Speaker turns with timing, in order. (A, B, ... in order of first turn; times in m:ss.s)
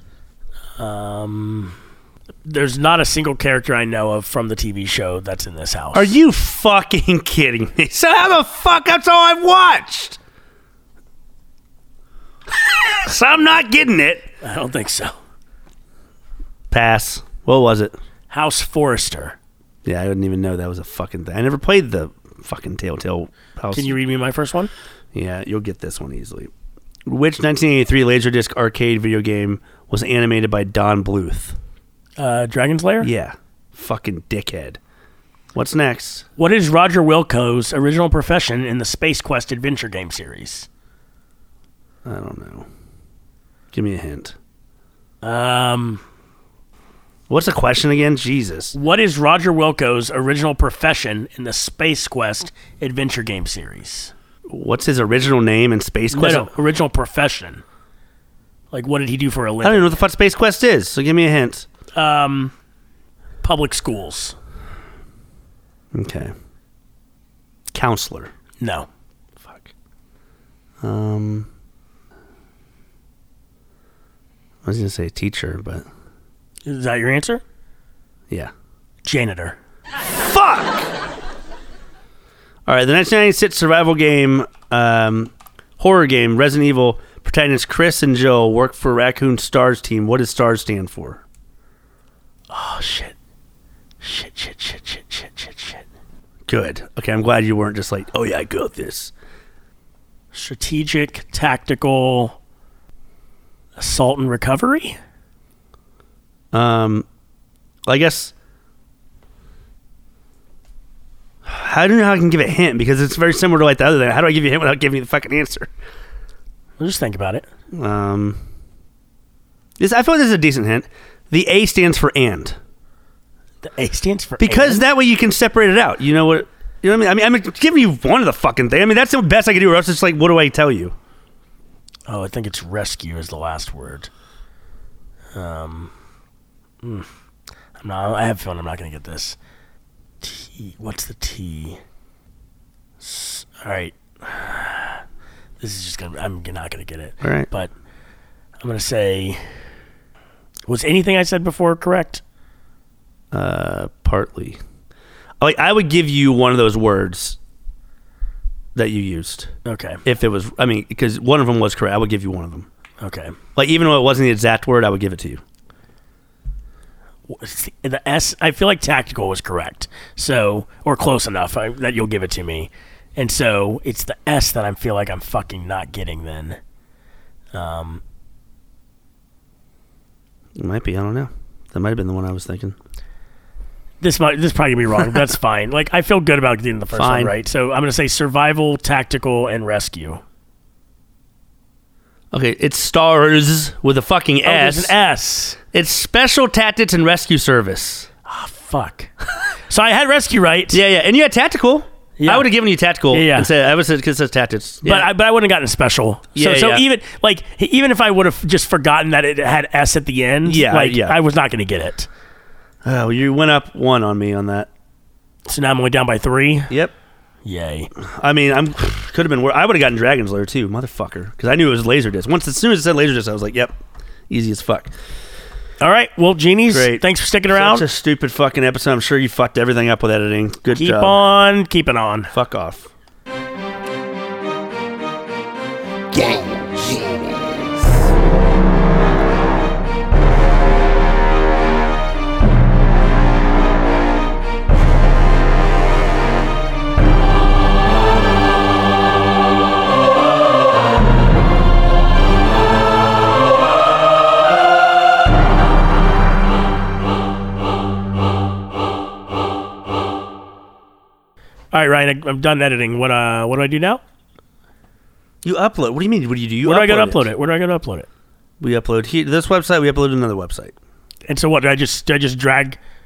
0:00.8-0:01.8 A
0:02.4-0:06.2 A
0:05.9-0:10.2 B
0:12.5-0:14.2 B
0:14.4-0:15.1 A
0:16.7-0:17.9 B
0:18.3-0:19.4 A
0:19.8-0:24.0 B
0:23.7-0:24.7 A
0:25.1-0:26.5 B
0:27.0-0:31.6 B
0:32.2-0:33.1 A
0:33.0-0:34.8 B
0:35.5-0:36.2 B
0:36.4-0:40.7 A
0:42.0-0:42.7 B
0:43.7-0:44.3 B
0:45.2-0:46.0 A
0:47.3-0:48.7 B
0:48.7-0:54.1 A
0:54.5-0:56.5 B
0:56.1-0:57.6 A
0:58.7-1:00.0 A
0:59.6-1:01.7 B
1:01.9-1:02.5 A
1:03.4-1:04.4 A
1:05.9-1:06.3 B
1:07.7-1:08.3 B
1:08.6-1:08.9 A
1:09.4-1:09.7 B
1:10.8-1:11.5 B
1:14.6-1:15.8 B
1:16.6-1:17.4 A
1:19.0-1:19.6 A
1:20.1-1:20.9 B
1:22.6-1:31.2 B
1:32.5-1:33.1 A
1:34.0-1:35.8 A
1:36.5-1:39.1 B
1:40.3-1:42.4 A
1:43.8-1:45.0 A
1:46.5-1:47.0 B
1:47.8-1:48.3 B
1:51.4-1:55.7 B
1:56.8-1:57.5 A
1:57.7-1:58.4 B
1:59.8-2:02.6 B
2:03.6-2:04.8 A
2:04.4-2:10.9 B
2:12.1-2:14.1 A
2:15.3-2:15.9 A
2:16.8-2:17.1 A
2:17.8-2:19.4 A
2:20.2-2:21.8 A
2:23.0-2:25.0 A
2:25.6-2:27.7 A
2:27.2-2:27.5 B
2:28.6-2:29.4 A
2:30.7-2:32.2 A
2:33.3-2:34.6 B
2:35.4-2:37.4 B
2:38.7-2:39.5 B
2:39.6-2:40.0 A
2:40.0-2:42.7 B
2:43.0-2:43.4 A
2:43.6-2:45.4 B
2:47.3-2:56.6 A
2:57.5-2:58.0 A
3:00.6-3:02.8 B
3:04.0-3:10.2 A
3:06.9-3:07.3 B
3:12.3-3:14.9 B
3:14.4-3:15.6 A
3:15.7-3:18.1 B
3:18.2-3:19.1 A
3:19.7-3:20.8 A
3:20.7-3:25.1 B
3:22.2-3:22.5 A
3:23.1-3:23.5 A
3:24.8-3:32.1 A
3:26.3-3:26.8 B
3:30.4-3:31.2 B
3:32.8-3:34.7 B
3:35.4-3:36.7 A
3:37.4-3:37.9 A
3:38.0-3:43.8 B
3:44.3-3:44.9 B
3:45.8-3:47.8 A
3:46.7-3:51.2 B
3:50.7-3:52.3 A
3:52.3-3:52.9 B
3:56.1-3:58.1 B
4:21.7-4:24.0 A
4:25.4-4:27.3 B
4:26.6-4:28.1 A
4:28.6-4:30.7 B
4:31.3-4:32.8 A